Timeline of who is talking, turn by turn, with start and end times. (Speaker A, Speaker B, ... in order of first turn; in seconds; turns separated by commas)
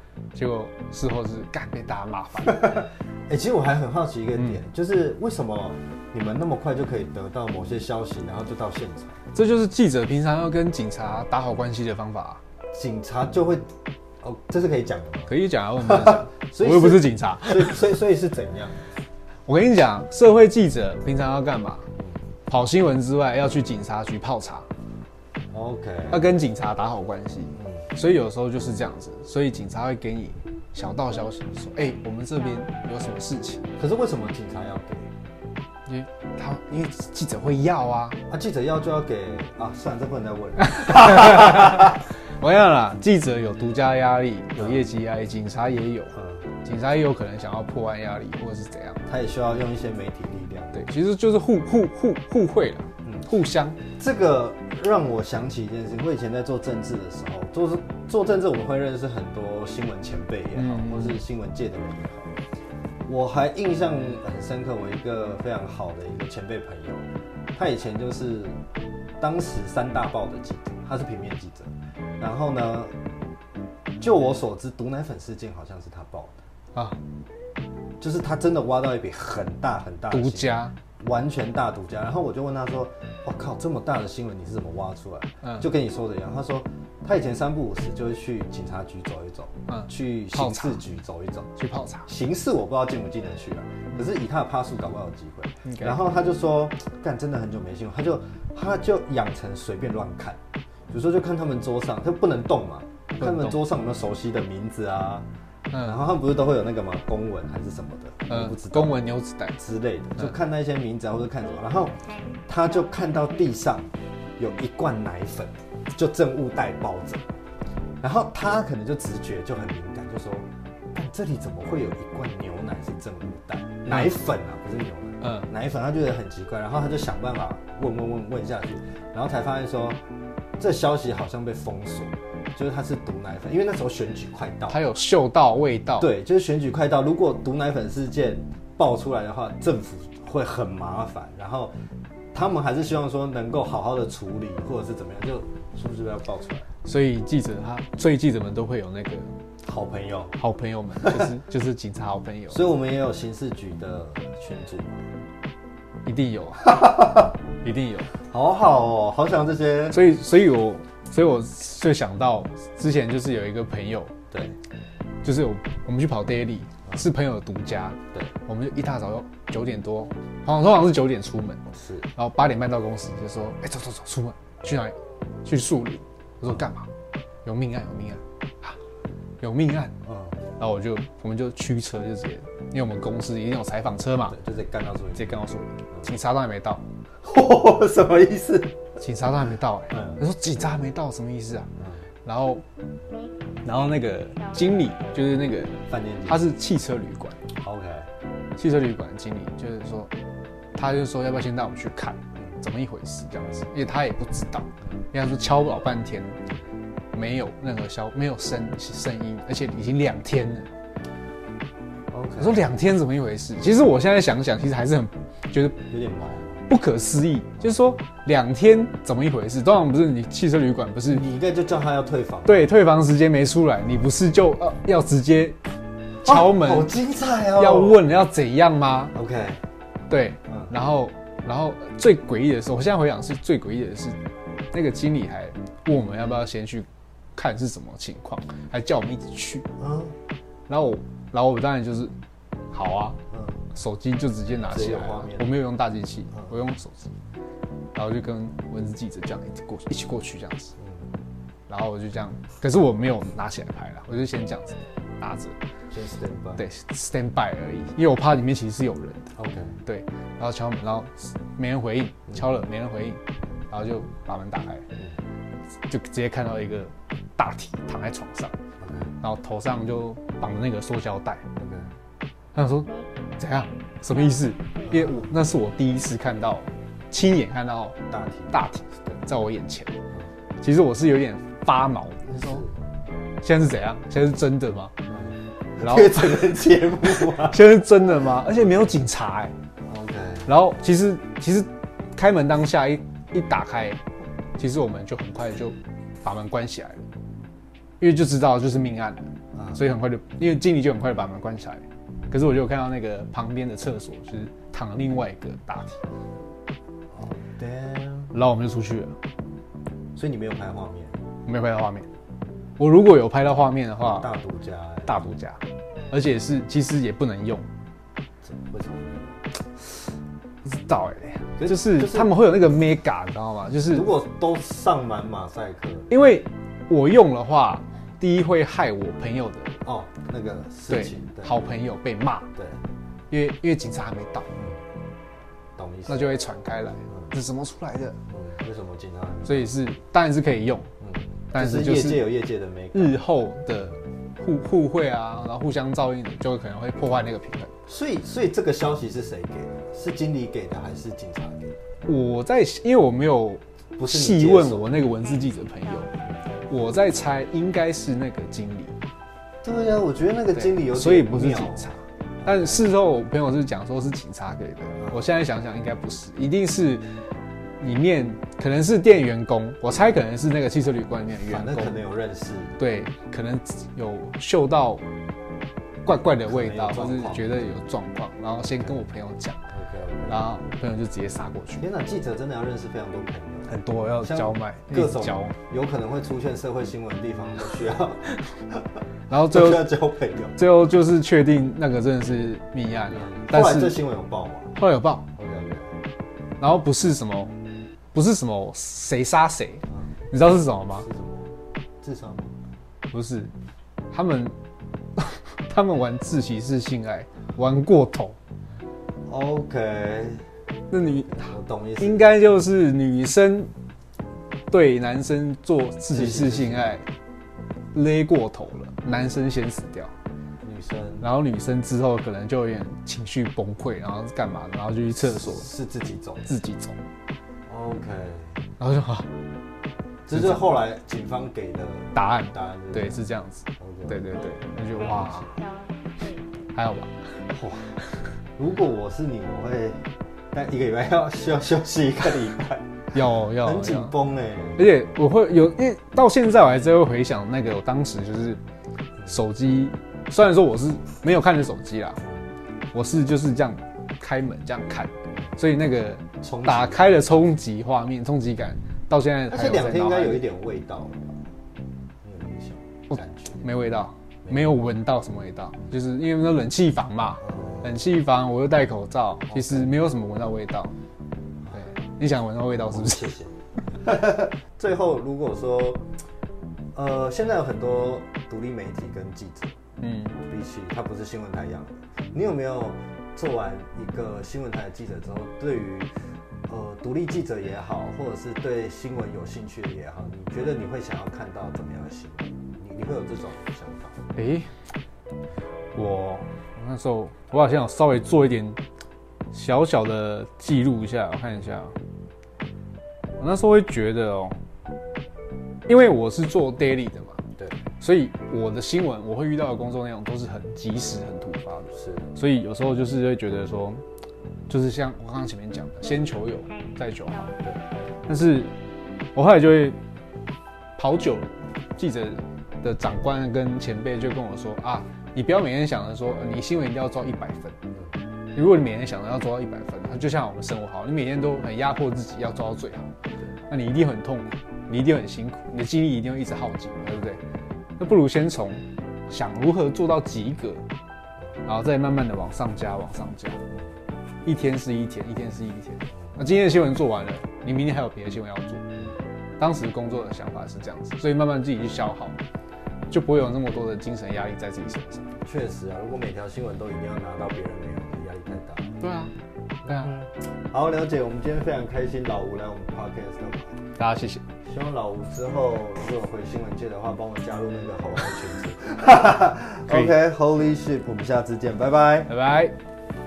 Speaker A: 0.3-2.8, Speaker B: 2.5-9.2, Speaker A: 9.3-12.4, Speaker B: 12.7-13.7, Speaker B: 14.2-18.8, Speaker A: 15.3-17.8, Speaker A: 19.5-21.9, Speaker A: 22.5-24.7, Speaker B: 25.5-26.3, Speaker A: 26.1-33.7, Speaker B: 27.6-27.9, Speaker B: 33.8-35.1, Speaker A: 35.9-38.2, Speaker B: 38.3-42.0, Speaker A: 40.7-46.1, Speaker B: 44.6-44.8, Speaker B: 46.1-46.4, Speaker A: 46.6-49.0, Speaker B: 49.1-50.9, Speaker A: 50.7-53.8, Speaker B: 53.9-62.3, Speaker A: 60.5-61.2, Speaker B: 63.1-68.6, Speaker B: 69.2-72.9, Speaker B: 74.0-76.3, Speaker B: 78.0-91.5, Speaker A: 80.1-80.8, Speaker A: 85.4-85.7, Speaker A: 89.7-90.8, Speaker A: 91.6-92.1, Speaker B: 92.1-100.4, Speaker A: 95.6-96.0, Speaker B: 100.9-105.2, Speaker A: 103.2-103.6, Speaker A: 105.7-106.0, Speaker B: 105.8-109.0, Speaker A: 108.3-109.6, Speaker B: 109.6-112.0, Speaker B: 112.5-117.2, Speaker B: 118.0-130.0, Speaker A: 125.2-125.5, Speaker B: 130.6-134.8, Speaker A: 134.7-136.1, Speaker B: 136.0-141.7, Speaker B: 142.3-146.7, Speaker A: 146.8-149.3, Speaker B: 149.6-150.3, Speaker A: 150.4-152.6, Speaker B: 151.0-151.3, Speaker B: 152.5-155.1, Speaker A: 156.1-156.8, Speaker B: 156.6-157.3, Speaker A: 157.6-158.1, Speaker B: 158.1-160.0, Speaker A: 159.9-164.1, Speaker B: 164.3-164.6, Speaker A: 165.2-171.6, Speaker B: 171.7-172.1, Speaker A: 172.2-176.9, Speaker A: 177.4-178.8, Speaker A: 179.4-179.9, Speaker B: 180.0-180.4, Speaker A: 180.6-184.3, Speaker B: 184.3-185.3, Speaker A: 185.2-186.8, Speaker B: 187.2-188.8, Speaker A: 189.0-191.7, Speaker B: 189.9-190.2, Speaker A: 192.2-192.6, Speaker A: 193.6-197.4, Speaker B: 195.9-196.4, Speaker B: 197.6-198.1, Speaker A: 198.6-200.1, Speaker A: 200.7-206.4, Speaker A: 207.1-210.7, Speaker B: 212.1-212.7, Speaker A: 212.4-215.8, Speaker B: 215.9-216.6, Speaker A: 216.7-221.2, Speaker B: 221.1-222.7, Speaker A: 222.4-225.6, Speaker A: 226.2-226.9, Speaker B: 226.2-228.0, Speaker A: 227.6-229.1, Speaker B: 229.1-229.6, Speaker A: 230.1-234.2, Speaker A: 234.7-239.7, Speaker B: 239.8-240.1, Speaker A: 240.7-242.1, Speaker A: 242.7-243.2, Speaker B: 243.3-243.6, Speaker A: 243.7-247.1, Speaker B: 244.7-245.5, Speaker A: 247.9-250.7, Speaker B: 250.8-251.0, Speaker A: 251.7-255.6, Speaker B: 255.9-256.6, Speaker A: 256.6-259.3, Speaker B: 259.4-259.8, Speaker A: 259.9-264.9, Speaker A: 265.9-268.6, Speaker B: 268.8-269.1, Speaker A: 269.2-271.4, Speaker B: 271.6-271.9, Speaker A: 272.5-278.0, Speaker B: 274.8-275.3, Speaker B: 278.1-279.2, Speaker A: 278.5-280.0, Speaker A: 280.6-282.6, Speaker B: 282.3-282.7, Speaker A: 283.4-284.9, Speaker B: 285.1-287.6, Speaker A: 285.8-289.5, Speaker B: 289.9-290.5, Speaker A: 290.5-294.0, Speaker A: 294.6-297.0, Speaker A: 298.0-306.0, Speaker B: 299.5-299.8, Speaker B: 307.1-308.3, Speaker A: 308.3-309.1, Speaker B: 310.1-311.2, Speaker A: 311.4-312.1, Speaker A: 312.8-314.3, Speaker B: 314.1-315.2, Speaker A: 315.1-317.7, Speaker B: 318.4-319.4, Speaker A: 320.6-324.1, Speaker B: 321.6-322.3, Speaker B: 323.9-326.1, Speaker A: 326.1-329.8, Speaker B: 329.8-331.6, Speaker A: 330.9-332.5, Speaker A: 333.3-334.5, Speaker B: 335.8-336.3, Speaker A: 336.1-338.2, Speaker B: 338.3-339.7, Speaker A: 339.4-340.9, Speaker B: 341.0-343.2, Speaker A: 341.5-342.2, Speaker A: 342.9-347.7, Speaker B: 347.9-351.8, Speaker A: 352.1-356.1, Speaker B: 354.0-355.0, Speaker A: 356.7-358.9, Speaker B: 359.6-362.9, Speaker A: 360.5-367.0, Speaker B: 365.0-365.2, Speaker A: 367.8-371.9, Speaker B: 371.5-372.8, Speaker A: 372.8-375.0, Speaker A: 376.0-379.6, Speaker B: 376.4-377.5, Speaker B: 379.7-380.4, Speaker A: 380.3-381.8, Speaker B: 381.8-388.8, Speaker A: 383.7-385.6, Speaker A: 389.3-389.9, Speaker B: 389.4-390.6, Speaker A: 390.6-394.0, Speaker B: 393.1-394.8, Speaker A: 394.7-395.3, Speaker B: 395.4-395.9, Speaker A: 396.6-397.5, Speaker A: 398.1-401.1, Speaker B: 400.9-401.5, Speaker B: 402.0-402.5, Speaker A: 403.1-403.5, Speaker A: 404.1-404.5, Speaker A: 405.1-408.4, Speaker B: 409.3-410.4, Speaker A: 410.9-413.7, Speaker B: 411.0-412.3, Speaker A: 414.7-417.1, Speaker B: 416.1-417.0, Speaker A: 417.9-420.1, Speaker B: 420.6-421.3, Speaker A: 421.2-425.7, Speaker B: 425.3-426.4, Speaker A: 426.4-427.0, Speaker B: 427.7-428.6, Speaker A: 428.8-429.3, Speaker B: 430.3-433.2, Speaker A: 430.3-430.6, Speaker A: 432.1-435.6, Speaker B: 433.8-434.3, Speaker A: 436.7-437.1, Speaker B: 437.5-438.0, Speaker B: 438.6-444.8, Speaker A: 443.1-444.1, Speaker A: 444.8-448.6, Speaker A: 449.3-452.2, Speaker A: 452.9-460.4, Speaker B: 456.4-457.5, Speaker B: 459.5-461.4, Speaker B: 462.2-463.6, Speaker A: 463.1-470.9, Speaker B: 464.4-464.7, Speaker B: 467.4-467.9, Speaker B: 469.5-469.9, Speaker A: 471.7-473.3, Speaker B: 472.9-476.0, Speaker B: 476.9-479.7, Speaker A: 480.0-480.4, Speaker B: 480.4-486.1, Speaker B: 486.7-494.2, Speaker A: 494.3-494.7, Speaker A: 495.9-498.8, Speaker A: 499.5-501.9, Speaker A: 503.4-504.6, Speaker A: 505.9-507.4, Speaker A: 508.0-514.0, Speaker B: 511.9-512.3, Speaker A: 514.7-517.5, Speaker B: 517.6-518.0, Speaker A: 518.3-518.7, Speaker A: 519.3-520.0, Speaker A: 521.0-527.8, Speaker A: 528.5-533.1, Speaker A: 533.7-537.4, Speaker A: 538.0-540.8, Speaker A: 541.6-543.6, Speaker A: 544.4-548.8, Speaker A: 549.6-552.4, Speaker A: 553.1-555.3, Speaker B: 555.4-559.0, Speaker A: 559.0-559.3, Speaker B: 559.9-563.8, Speaker A: 564.0-564.4, Speaker B: 564.6-572.3, Speaker A: 569.9-570.1, Speaker A: 572.3-572.8